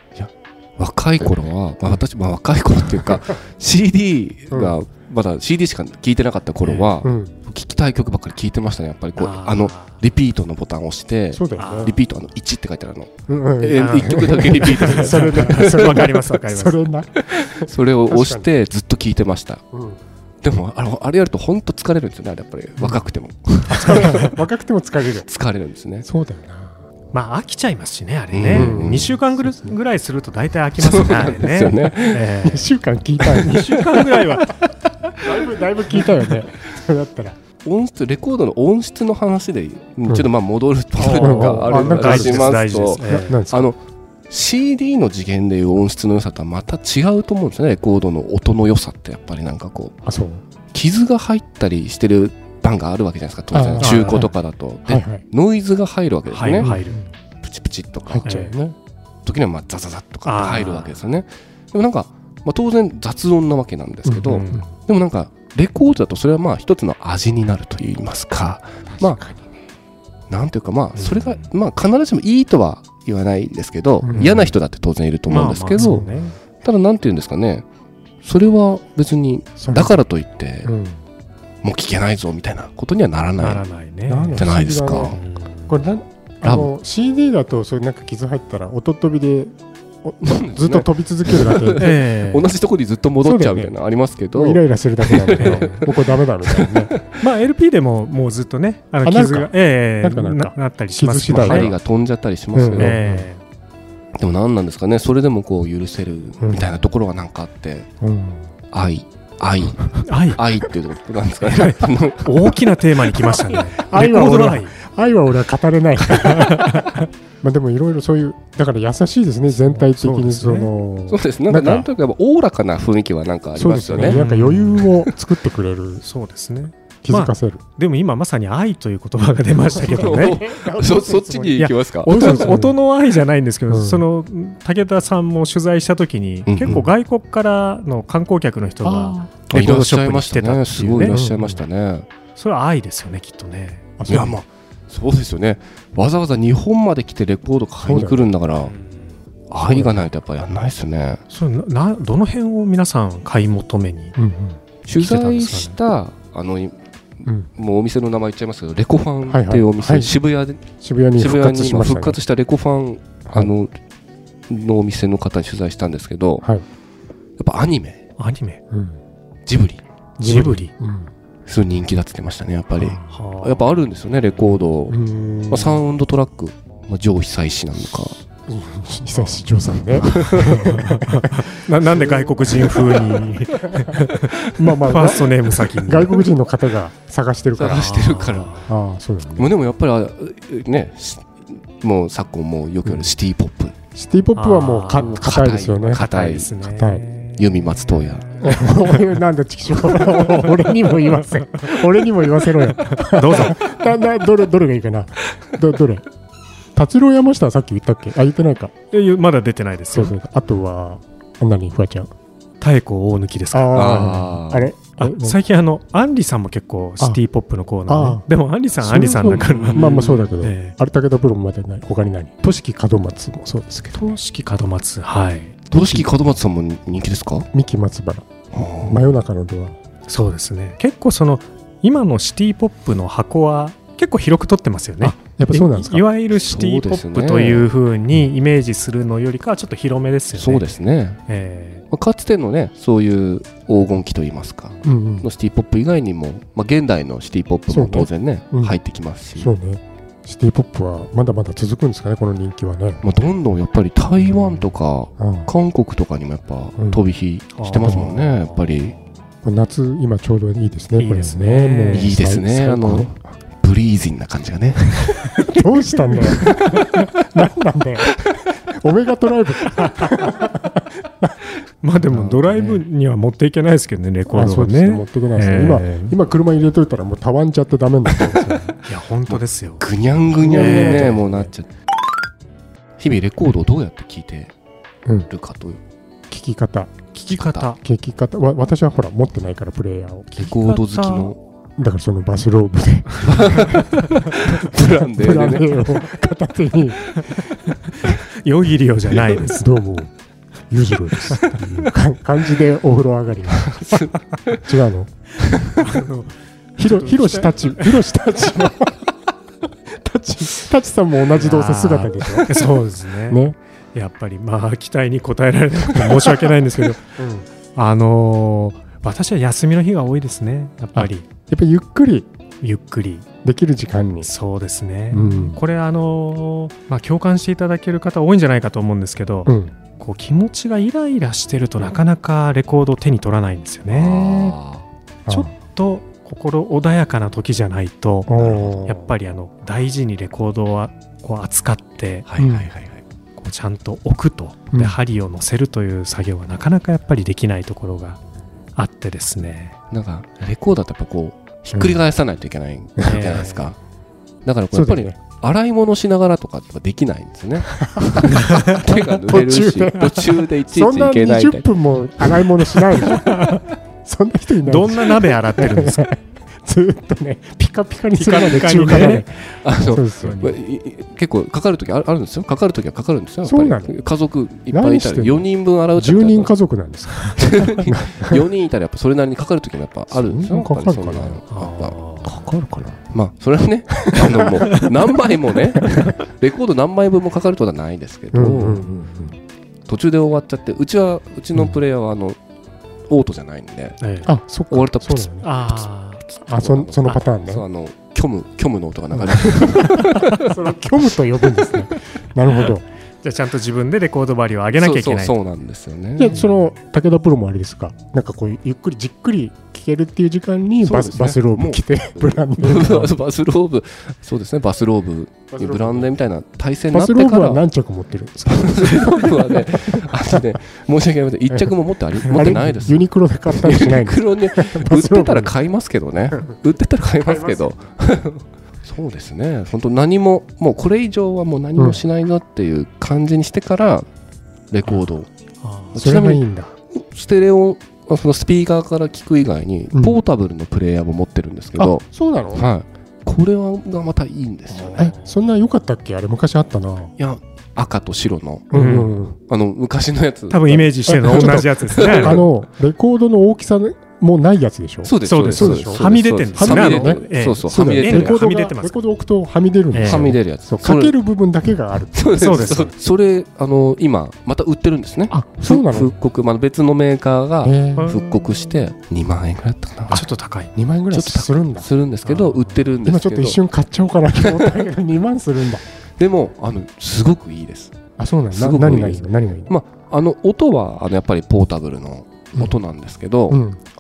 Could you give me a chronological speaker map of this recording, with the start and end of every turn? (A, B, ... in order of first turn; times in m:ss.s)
0:00.2-0:16.1 A
0:04.5-0:04.8 B
0:06.6-0:06.9 C
0:07.0-0:07.3 B
0:09.2-0:10.0 C
0:11.3-0:12.0 B
0:11.6-0:12.0 C
0:13.3-0:18.5 B
0:13.8-0:16.9 C
0:17.2-0:19.6 A
0:19.7-0:20.0 B
0:20.4-0:24.4 A
0:23.7-0:25.3 B
0:25.3-0:26.1 A
0:26.0-0:26.8 B
0:27.1-0:32.7 C
0:28.3-0:29.1 A
0:28.5-0:29.8 B
0:30.8-0:32.3 A
0:32.4-0:37.4 B
0:33.3-0:33.6 A
0:33.3-0:34.6 C
0:35.2-0:36.4 A
0:37.6-0:43.8 A
0:41.0-0:43.4 C
0:41.1-0:43.7 B
0:44.3-0:50.0 A
0:50.0-0:50.4 B
0:50.7-0:56.7 A
0:53.5-0:54.3 B
0:53.8-0:54.3 C
0:54.9-0:55.2 B
0:56.3-0:57.0 C
0:56.6-0:57.0 B
0:57.4-0:58.3 A
0:58.1-0:58.8 B
0:58.2-0:58.5 C
0:59.3-1:09.2 A
1:00.3-1:01.0 C
1:04.1-1:04.7 B
1:04.2-1:04.6 C
1:08.9-1:09.6 B
1:10.3-1:16.0 A
1:11.0-1:11.4 C
1:14.0-1:14.5 B
1:14.2-1:14.5 C
1:15.3-1:16.4 C
1:15.8-1:16.2 B
1:16.6-1:17.6 A
1:18.2-1:20.7 A
1:19.6-1:20.0 B
1:20.6-1:21.0 B
1:21.6-1:23.6 A
1:23.4-1:24.4 C
1:24.1-1:31.9 B
1:24.4-1:25.2 A
1:25.0-1:25.8 C
1:26.4-1:26.7 A
1:30.2-1:37.2 A
1:31.8-1:32.5 C
1:33.2-1:33.7 B
1:34.3-1:36.9 B
1:35.4-1:35.7 C
1:37.2-1:41.7 C
1:39.0-1:41.8 B
1:41.3-1:43.0 A
1:42.5-1:43.3 B
1:42.8-1:43.4 C
1:44.2-1:47.9 A
1:46.4-1:46.8 B
1:48.0-1:48.5 B
1:48.7-1:52.6 A
1:50.0-1:50.4 C
1:51.5-1:54.7 C
1:53.5-2:01.9 B
1:56.2-1:57.0 C
1:59.5-2:00.7 C
2:01.1-2:04.2 A
2:03.6-2:06.0 B
2:04.0-2:04.9 C
2:06.0-2:10.4 C
2:07.0-2:07.6 B
2:09.7-2:12.8 B
2:09.8-2:12.6 A
2:11.6-2:21.2 C
2:13.7-2:14.0 B
2:16.5-2:16.8 A
2:18.8-2:19.3 B
2:19.5-2:22.1 A
2:21.1-2:21.6 B
2:22.4-2:23.9 C
2:24.0-2:24.4 B
2:24.1-2:28.7 A
2:27.8-2:28.3 B
2:28.6-2:29.2 C
2:29.5-2:31.2 A
2:29.7-2:30.1 B
2:31.3-2:34.2 C
2:34.2-2:34.6 B
2:34.9-2:43.7 A
2:35.0-2:35.8 C
2:39.3-2:40.1 B
2:40.8-2:42.2 B
2:44.5-2:46.4 A
2:47.4-2:48.0 A
2:48.2-2:48.6 C
2:48.7-2:49.0 B
2:49.5-2:49.8 A
2:50.2-2:51.1 B
2:50.2-2:50.7 C
2:51.5-2:58.2 A
2:53.0-2:53.8 C
2:54.9-2:55.8 B
2:58.2-3:07.9 B
3:00.0-3:00.9 A
3:00.6-3:06.3 C
3:07.6-3:08.6 A
3:07.7-3:08.7 C
3:08.7-3:09.5 B
3:09.4-3:13.8 A
3:14.0-3:16.0 B
3:14.4-3:15.2 C
3:15.0-3:16.5 A
3:15.9-3:19.0 C
3:16.6-3:17.0 B
3:17.4-3:18.4 A
3:18.4-3:26.1 B
3:20.1-3:20.6 C
3:22.8-3:23.7 C
3:26.8-3:28.7 B
3:28.9-3:30.2 C
3:29.9-3:32.1 B
3:32.6-3:34.1 C
3:33.5-3:35.4 B
3:33.7-3:34.7 A
3:35.0-3:40.8 C
3:37.9-3:38.2 B
3:38.8-3:44.2 B
3:39.3-3:40.2 A
3:43.9-3:45.8 C
3:45.7-3:47.5 A
3:45.8-3:46.0 B
3:47.5-3:48.3 B
3:48.5-3:49.1 A
3:48.8-3:49.8 B
3:50.1-4:00.7 C
3:55.0-3:56.1 B
3:56.3-3:57.7 A
4:00.4-4:01.2 A
4:01.3-4:01.8 C
4:01.9-4:09.5 A
4:04.8-4:05.3 B
4:07.7-4:08.8 B
4:09.4-4:13.0 B
4:13.0-4:19.0 A
4:15.2-4:15.5 B
4:17.6-4:18.8 C
4:17.8-4:18.2 B
4:19.4-4:23.2 B
4:21.0-4:22.1 C
4:21.9-4:25.4 A
4:25.5-4:31.4 B
4:26.2-4:27.1 A
4:31.8-4:36.2 C
4:32.1-4:32.8 A
4:34.3-4:38.8 B
4:38.9-4:39.8 C
4:39.3-4:41.7 A
4:40.4-4:41.5 B
4:40.5-4:41.2 C
4:43.0-4:44.5 A
4:45.3-4:45.8 A
4:46.3-4:46.9 B
4:47.1-4:47.8 C
4:47.3-4:47.7 A
4:47.8-4:50.5 B
4:50.3-4:51.3 C
4:50.4-4:51.4 A
4:51.8-4:57.2 B
4:53.2-4:56.0 A
4:57.1-4:59.7 C
4:59.4-5:00.1 B
5:00.7-5:05.1 B
5:03.5-5:04.7 A
5:05.4-5:05.8 A
5:05.8-5:06.0 B
5:05.8-5:06.3 C
5:06.8-5:09.0 B
5:06.8-5:08.0 C
5:09.9-5:12.7 B
5:11.3-5:13.4 C
5:13.3-5:13.6 B
5:13.9-5:17.0 C
5:16.8-5:17.5 B
5:17.8-5:21.3 C
5:21.0-5:22.3 B
5:22.6-5:23.3 C
5:23.4-5:24.3 B
5:24.2-5:34.6 C
5:25.1-5:25.6 B
5:29.5-5:29.7 B
5:33.9-5:34.8 A
5:35.3-5:42.3 C
5:38.3-5:39.1 B
5:42.3-5:43.0 A
5:42.4-5:42.7 B
5:43.4-5:48.2 C
5:48.8-5:49.8 C
5:49.9-5:53.8 A
5:51.7-5:52.0 B
5:53.0-5:53.7 C
5:54.4-6:01.6 A
5:54.7-5:55.2 B
5:57.8-6:10.5 B
5:58.3-5:58.8 C
6:02.2-6:02.9 A
6:03.0-6:03.6 C
6:04.6-6:06.1 C
6:08.1-6:09.3 C
6:09.6-6:16.5 A
6:10.2-6:10.5 C
6:13.4-6:14.0 B
6:14.7-6:18.4 B
6:17.4-6:22.0 A
6:20.1-6:21.4 B
6:21.5-6:22.3 C
6:22.2-6:23.0 B
6:23.1-6:28.8 A
6:24.0-6:24.9 B
6:25.8-6:26.1 B
6:28.3-6:29.4 B
6:29.9-6:32.4 A
6:33.1-6:34.0 A
6:34.0-6:34.3 C
6:34.2-6:35.5 B
6:34.7-6:40.6 A
6:35.4-6:36.2 C
6:36.5-6:37.6 B
6:39.1-6:42.8 B
6:43.2-6:45.4 C
6:44.8-6:46.4 A
6:46.2-6:53.1 B
6:50.8-6:57.6 A
6:55.5-6:56.1 B
6:56.9-7:00.6 B
6:58.5-7:14.1 A
7:02.2-7:05.5 B
7:07.3-7:07.7 B
7:11.8-7:12.0 B
7:14.7-7:15.3 A
7:15.6-7:16.0 C
7:15.9-7:22.0 A
7:16.0-7:16.7 B
7:19.9-7:20.2 B
7:21.8-7:22.7 B
7:22.6-7:25.1 A
7:24.7-7:25.4 C
7:25.0-7:27.1 B
7:27.2-7:28.8 A
7:28.7-7:29.4 B
7:28.7-7:29.1 C
7:29.4-7:32.5 A
7:30.5-7:32.4 C
7:31.1-7:42.8 B
7:35.0-7:38.4 A
7:35.2-7:39.0 C
7:39.9-7:40.3 C
7:40.0-7:41.2 A
7:42.1-7:50.2 A
7:42.4-7:42.9 C
7:45.3-7:46.2 B
7:47.6-7:48.2 B
7:48.0-7:48.7 C
7:50.1-7:50.7 C
7:50.7-7:51.9 B
7:51.1-7:53.6 A
7:52.2-7:52.9 C
7:53.0-7:55.8 B
7:54.4-7:54.8 A
7:56.2-7:57.9 A
7:58.2-7:59.7 B
7:58.5-8:03.6 A
8:03.5-8:03.8 B